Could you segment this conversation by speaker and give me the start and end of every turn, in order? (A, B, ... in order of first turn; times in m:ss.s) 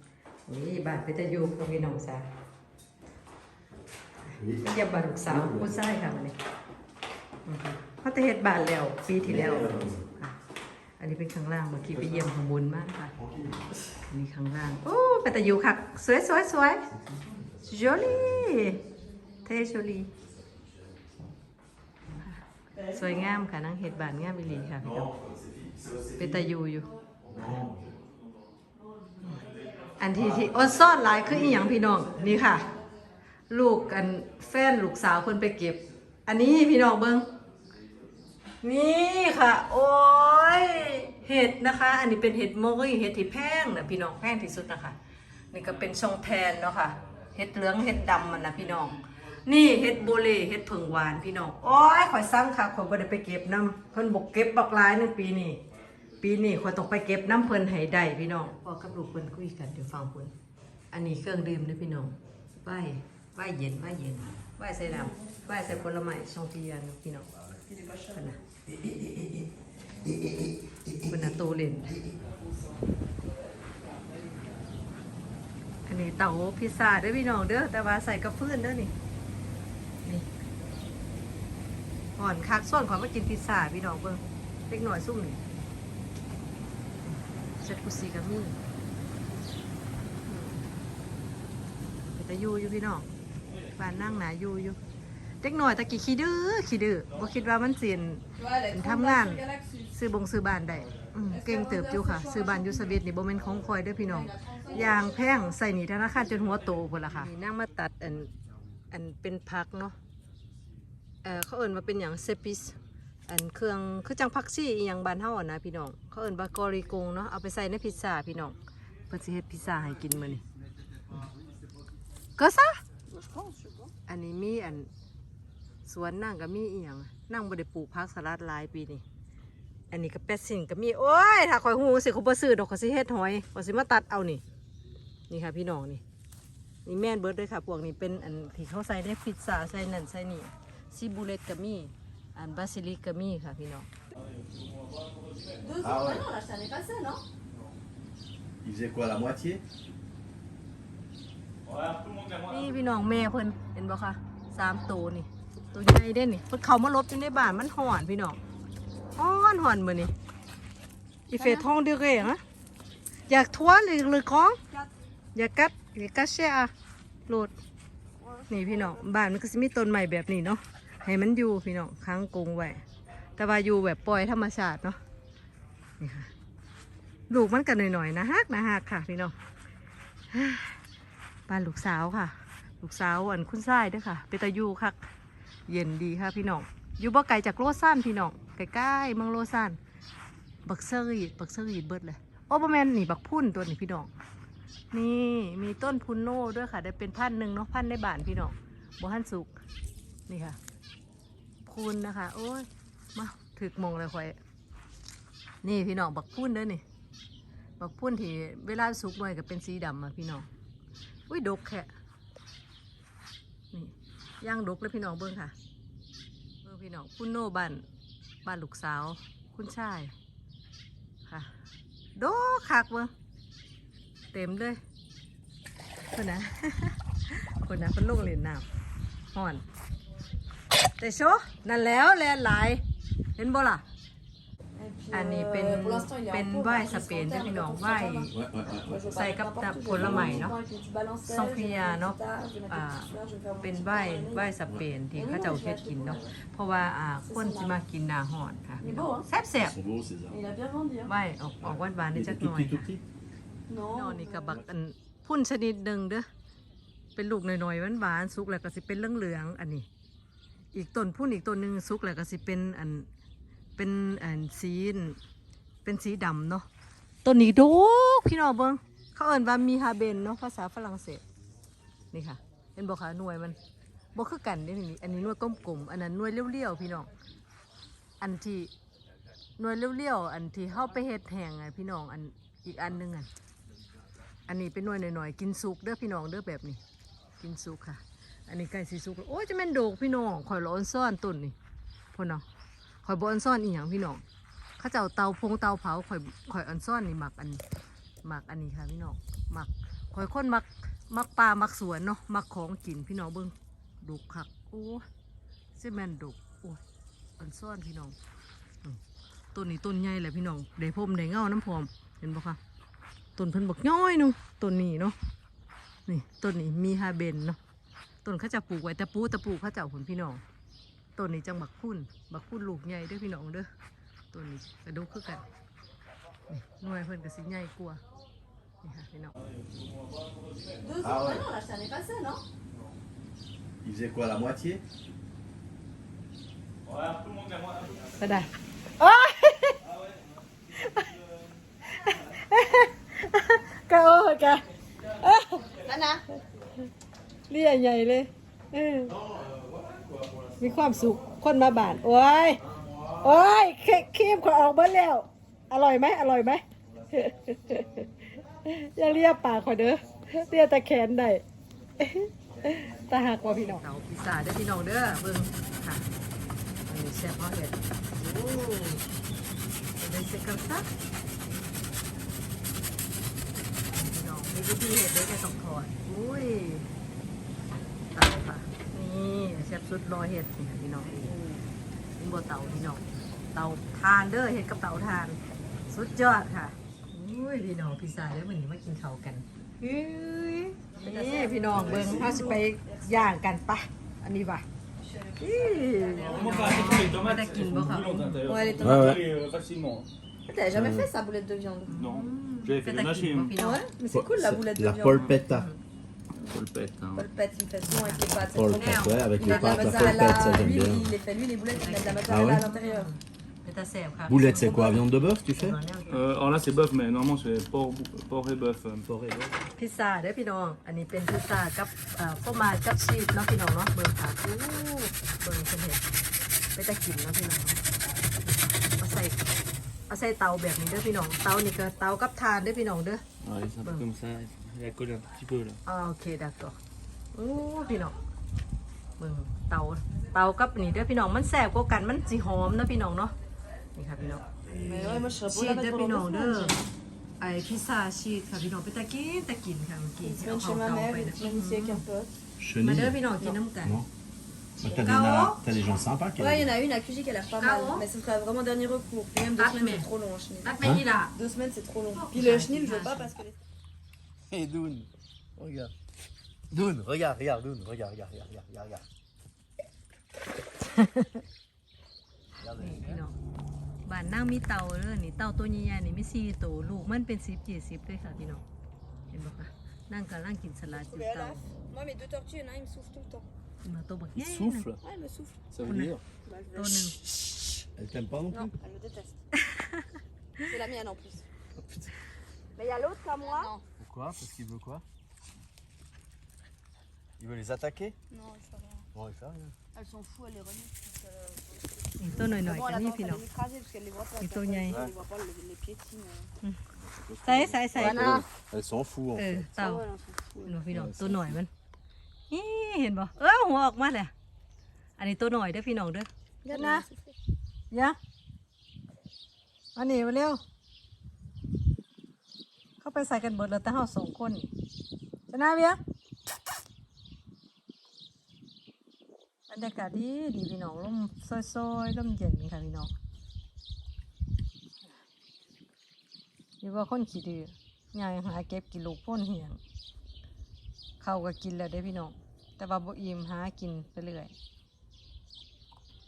0:00.5-0:02.3 A
0:04.3-0:06.4 A
0:04.4-0:04.6 B
0:05.3-0:05.7 B
0:07.4-0:10.4 A
0:09.2-0:10.0 B
0:11.0-0:13.1 A
0:12.0-0:12.2 B
0:13.2-0:13.8 B
0:14.1-0:16.8 A
0:17.0-0:18.4 B
0:17.6-0:18.8 A
0:19.4-0:20.1 A
0:20.4-0:20.7 B
0:22.2-0:25.1 A
0:24.7-0:26.4 B
0:26.2-0:27.6 A
0:27.2-0:28.0 B
0:30.0-0:32.7 A
0:31.2-0:31.8 B
0:33.5-0:37.3 A
0:38.6-0:45.0 A
0:45.5-0:55.6 A
0:56.2-1:00.3 A
1:00.9-1:07.3 A
1:08.1-1:08.4 A
1:11.0-1:12.0 A
1:15.8-1:18.9 A
1:22.2-1:25.4 A
1:27.1-1:28.6 A
1:30.2-1:30.6 A
1:32.0-1:33.1 A
1:33.8-1:34.8 A
1:35.4-1:39.4 A
1:38.4-1:39.9 C
1:39.9-1:48.3 A
1:41.3-1:43.0 C
1:44.0-1:45.5 C
1:48.9-1:50.0 A
1:51.2-1:58.6 A
1:59.1-2:00.4 A
2:02.4-2:02.8 A
2:03.1-2:03.9 C
2:04.1-2:04.9 A
2:05.8-2:09.0 A
2:09.9-2:14.4 A
2:15.3-2:16.0 A
2:16.8-2:23.9 A
2:24.3-2:25.6 D
2:25.6-2:27.2 C
2:25.8-2:26.3 B
2:28.6-2:29.6 B
2:31.6-2:32.7 D
2:32.5-2:38.4 A
2:39.2-2:40.1 A
2:41.3-2:42.4 A
2:41.4-2:41.6 C
2:43.3-2:44.6 A
2:45.3-2:46.7 A
2:47.3-2:47.5 A
2:48.2-2:49.0 C
2:48.5-2:52.8 A
2:53.4-2:55.0 A
2:56.0-2:56.3 A
2:57.3-2:59.3 A
3:00.3-3:00.8 A
3:01.5-3:05.1 A
3:05.7-3:09.8 A
3:10.6-3:14.1 A
3:14.9-3:19.6 A
3:20.3-3:20.6 A
3:21.6-3:24.4 A
3:25.6-3:26.8 A
3:27.8-3:30.5 A
3:31.3-3:31.9 A
3:33.7-3:35.5 A
3:36.6-3:37.8 A
3:38.4-3:40.1 A
3:41.2-3:41.5 A
3:42.2-3:43.1 A
3:44.3-3:44.8 A
3:46.1-3:48.6 A
3:49.3-3:49.6 A
3:51.0-3:52.8 A
3:53.4-3:53.8 A
3:54.7-4:04.5 C
3:55.1-3:58.3 A
3:58.3-3:59.0 B
3:59.1-4:00.6 A
3:59.9-4:00.5 B
4:01.2-4:02.2 A
4:02.7-4:03.1 A
4:03.6-4:09.8 A
4:05.1-4:06.3 C
4:07.2-4:07.8 C
4:08.8-4:09.3 C
4:09.7-4:10.4 B
4:10.3-4:11.1 C
4:11.0-4:12.9 A
4:11.7-4:13.0 B
4:13.7-4:14.6 C
4:13.9-4:16.3 A
4:17.2-4:19.9 A
4:20.7-4:23.1 A
4:23.8-4:25.2 A
4:25.8-4:26.6 A
4:27.2-4:31.2 A
4:32.1-4:33.6 A
4:34.1-4:37.1 A
4:38.2-4:38.7 A
4:39.6-4:43.3 A
4:44.5-4:46.8 A
4:47.4-4:51.5 A
4:52.1-4:52.4 A
4:53.0-4:54.2 A
4:54.8-4:57.6 A
4:58.2-5:05.0 A
5:05.8-5:06.8 A
5:07.4-5:08.2 A
5:09.5-5:12.6 A
5:13.4-5:15.2 A
5:16.1-5:17.6 A
5:18.2-5:20.4 A
5:21.2-5:23.7 A
5:24.3-5:25.4 A
5:26.5-5:28.0 A
5:28.8-5:29.3 A
5:29.6-5:30.8 D
5:30.8-5:32.4 C
5:31.0-5:31.5 B
5:33.8-5:34.8 B
5:36.8-5:38.1 D
5:38.1-5:39.8 A
5:40.7-5:41.1 A
5:41.9-5:45.8 A
5:45.7-5:46.2 C
5:47.5-5:49.2 A
5:49.3-5:50.4 B
5:50.6-5:52.6 A
5:53.2-6:01.4 A
6:02.0-6:06.0 A
6:06.8-6:09.0 A
6:10.0-6:10.9 A
6:13.9-6:16.9 A
6:18.1-6:21.3 A
6:21.2-6:21.6 C
6:22.2-6:34.6 A
6:31.0-6:33.3 C
6:31.8-6:32.2 B
6:35.0-6:37.1 C
6:35.4-6:38.6 A
6:36.2-6:40.1 D
6:38.4-6:39.2 C
6:38.8-6:39.2 B
6:40.5-6:41.9 C
6:40.7-6:41.1 B
6:41.9-6:43.8 A
6:42.0-6:43.5 D
6:43.6-6:45.4 C
6:44.1-6:45.7 B
6:45.5-6:45.8 A
6:46.4-6:47.2 D
6:47.1-6:53.1 C
6:47.8-6:48.2 A
6:48.5-6:51.1 B
6:48.8-6:50.2 A
6:51.7-6:56.2 A
6:52.2-6:52.6 B
6:54.3-6:55.8 B
6:56.1-6:59.1 D
6:59.0-6:59.5 B
6:59.8-7:06.0 A
7:06.7-7:07.8 A
7:08.8-7:09.4 A
7:10.1-7:13.2 A
7:13.4-7:15.8 D
7:15.8-7:16.8 A
7:17.3-7:18.2 A
7:19.2-7:23.3 A
7:23.9-7:26.8 A
7:24.7-7:26.9 C
7:27.4-7:32.0 A
7:30.2-7:32.3 C
7:32.6-7:33.2 B
7:32.8-7:34.0 A
7:34.8-7:36.7 B
7:35.0-7:35.6 A
7:36.4-7:40.8 C
7:37.6-7:38.0 A
7:39.6-7:40.1 A
7:40.6-7:41.3 A
7:40.8-7:41.0 B
7:41.3-7:43.6 C
7:42.1-7:43.3 A
7:44.5-7:45.9 B
7:46.7-7:49.0 B
7:50.9-7:51.4 A
7:52.6-7:53.2 B
7:52.7-7:53.4 A
7:54.0-7:58.6 A
7:59.3-8:01.7 A
8:00.9-8:03.5 C
8:03.8-8:04.9 A
8:04.4-8:04.8 B
8:05.0-8:05.7 C
8:05.7-8:06.2 B
8:05.8-8:06.2 A
8:06.4-8:07.1 C
8:06.7-8:07.2 A
8:08.0-8:08.7 B
8:08.5-8:09.4 C
8:09.5-8:10.1 A
8:10.6-8:11.4 C
8:12.8-8:13.8 C
8:14.0-8:15.0 B
8:17.4-8:18.2 B
8:18.3-8:19.1 C
8:19.1-8:19.7 B
8:19.9-8:26.5 C
8:22.2-8:23.4 A
8:24.4-8:25.0 A
8:27.0-8:29.6 B
8:27.4-8:28.4 A
8:27.9-8:28.5 C
8:29.3-8:30.0 A
8:29.7-8:30.8 C
8:30.6-8:31.7 A
8:30.9-8:31.6 B
8:32.5-8:34.3 A
8:35.2-8:37.0 A
8:36.6-8:37.3 C
8:37.9-8:38.2 A
8:40.0-8:40.6 A
8:43.0-8:44.7 A
8:45.5-8:46.0 A
8:49.7-8:53.1 A
8:56.8-8:59.8 A
9:01.2-9:04.5 A